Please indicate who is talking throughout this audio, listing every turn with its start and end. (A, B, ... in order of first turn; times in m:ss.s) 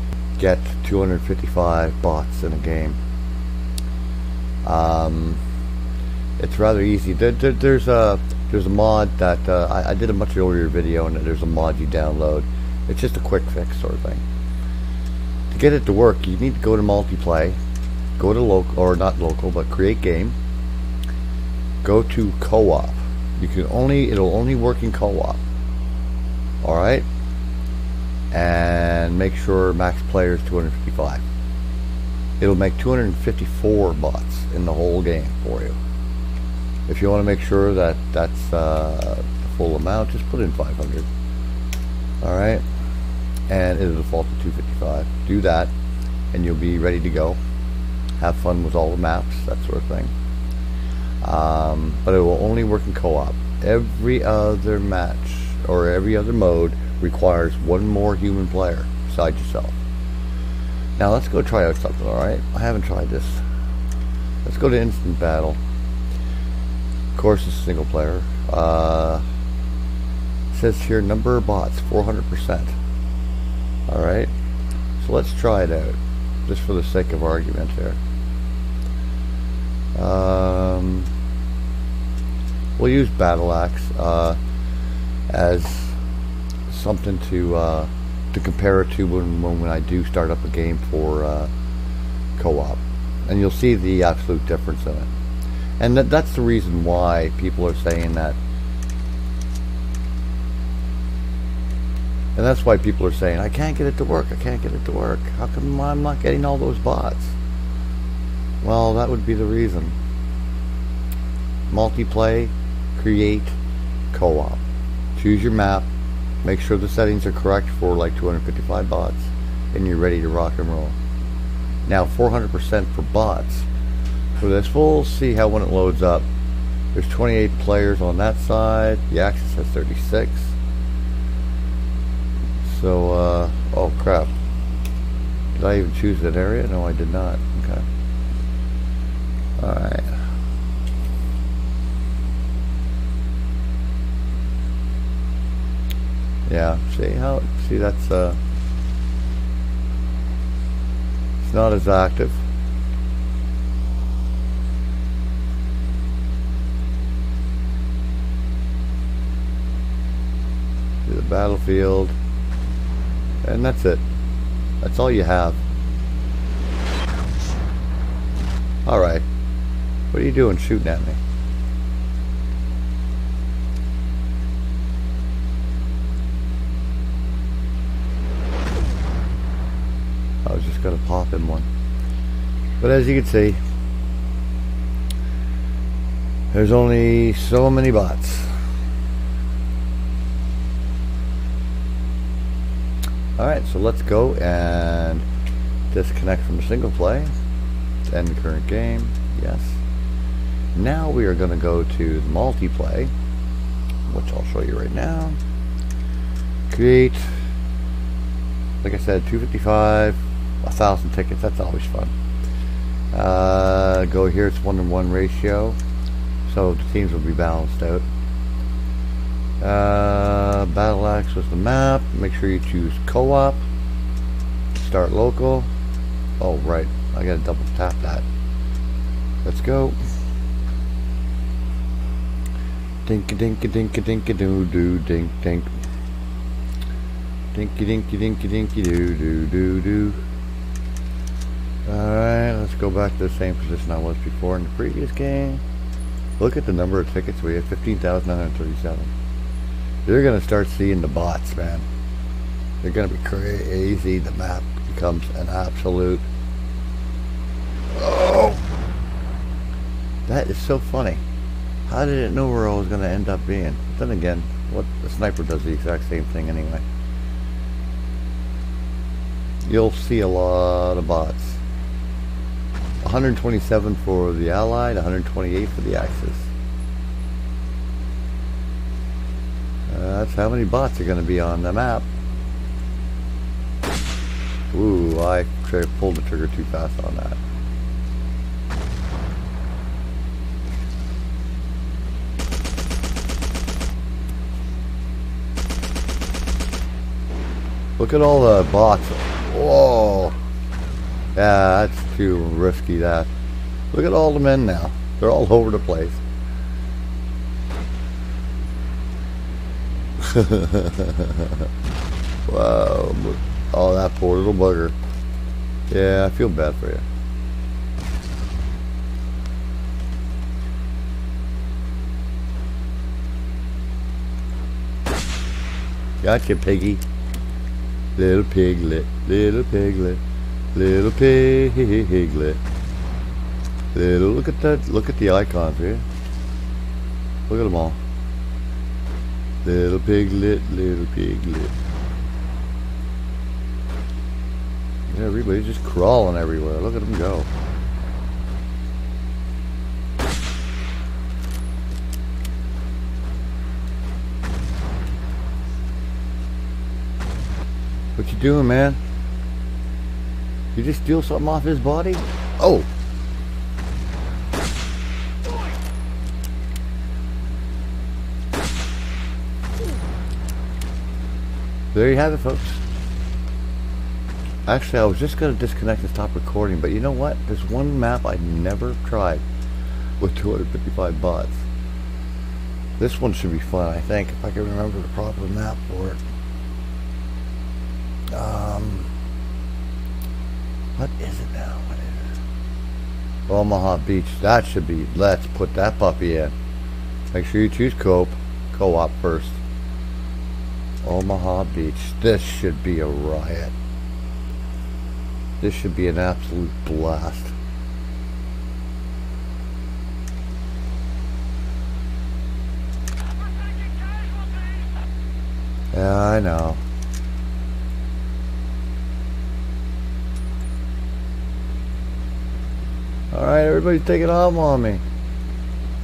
0:00.4-0:03.0 A
0:04.6-0:05.4 A
0:06.4-0:14.2 A
0:15.5-0:17.6 A
0:18.2-0:20.4 A
0:21.8-0:25.4 A
0:26.6-0:27.1 A
0:28.3-0:31.2 A
0:32.4-0:35.8 A
0:36.9-0:41.1 A
0:42.2-0:42.6 A
0:43.5-0:45.7 A
0:46.3-0:47.4 A
0:48.2-0:50.1 A
0:51.2-0:59.8 A
1:01.0-1:03.4 A
1:04.4-1:05.6 A
1:07.1-1:09.2 A
1:10.5-1:12.7 A
1:13.9-1:14.3 A
1:15.0-1:18.0 A
1:19.9-1:21.1 A
1:22.8-1:24.4 A
1:25.3-1:26.0 A
1:26.7-1:31.5 A
1:32.4-1:35.1 A
1:35.8-1:38.4 A
1:42.4-1:47.4 A
1:48.6-1:50.0 A
1:51.7-1:53.6 A
1:54.1-1:54.6 A
1:55.2-1:55.9 A
1:56.4-2:01.0 A
2:01.9-2:03.7 A
2:04.4-2:06.3 A
2:06.9-2:10.5 A
2:12.6-2:14.3 A
2:15.5-2:17.8 A
2:19.6-2:20.2 A
2:26.5-2:28.4 A
2:31.4-2:32.4 A
2:41.1-2:42.2 A
2:43.4-2:44.0 A
2:44.8-2:45.6 A
2:48.8-2:49.2 A
2:50.1-2:51.2 A
3:00.4-3:01.7 A
3:02.8-3:03.6 A
3:06.5-3:08.6 A
3:13.4-3:15.3 A
3:15.9-3:17.3 A
3:18.1-3:19.8 A
3:20.8-3:23.1 A
3:24.1-3:25.4 A
3:26.7-3:27.4 A
3:28.8-3:32.1 A
3:33.1-3:35.8 A
3:36.4-3:38.1 A
3:39.6-3:43.6 A
3:44.7-3:45.7 A
3:46.4-3:48.2 A
3:49.4-3:50.0 A
3:53.0-3:55.7 A
3:57.5-4:00.2 A
4:01.8-4:05.6 A
4:06.4-4:09.1 A
4:10.1-4:11.9 A
4:12.8-4:16.3 A
4:18.0-4:18.6 A
4:20.3-4:21.2 A
4:21.9-4:26.8 A
4:29.6-4:31.6 A
4:33.0-4:36.5 A
4:39.9-4:42.1 A
4:44.7-4:47.4 A
4:58.0-5:00.4 A
5:01.4-5:03.3 A
5:03.9-5:06.2 A
5:10.2-5:11.7 A
5:12.5-5:15.0 A
5:15.9-5:17.1 A
5:26.2-5:27.0 A
5:28.2-5:30.2 A
5:30.7-5:32.6 A
5:33.9-5:36.0 A
5:37.5-5:38.0 A
5:39.6-5:41.8 A
5:45.1-5:47.5 A
5:58.2-5:59.0 A
6:00.7-6:02.9 A
6:11.9-6:12.8 A
6:14.7-6:19.4 A
6:20.2-6:21.6 A
6:23.0-6:26.2 A
6:28.3-6:29.1 A
6:31.0-6:32.3 A
6:33.5-6:36.5 A
6:37.3-6:39.6 A
6:41.0-6:43.7 A
6:45.6-6:47.6 A
6:55.9-6:56.8 A
7:03.3-7:05.0 A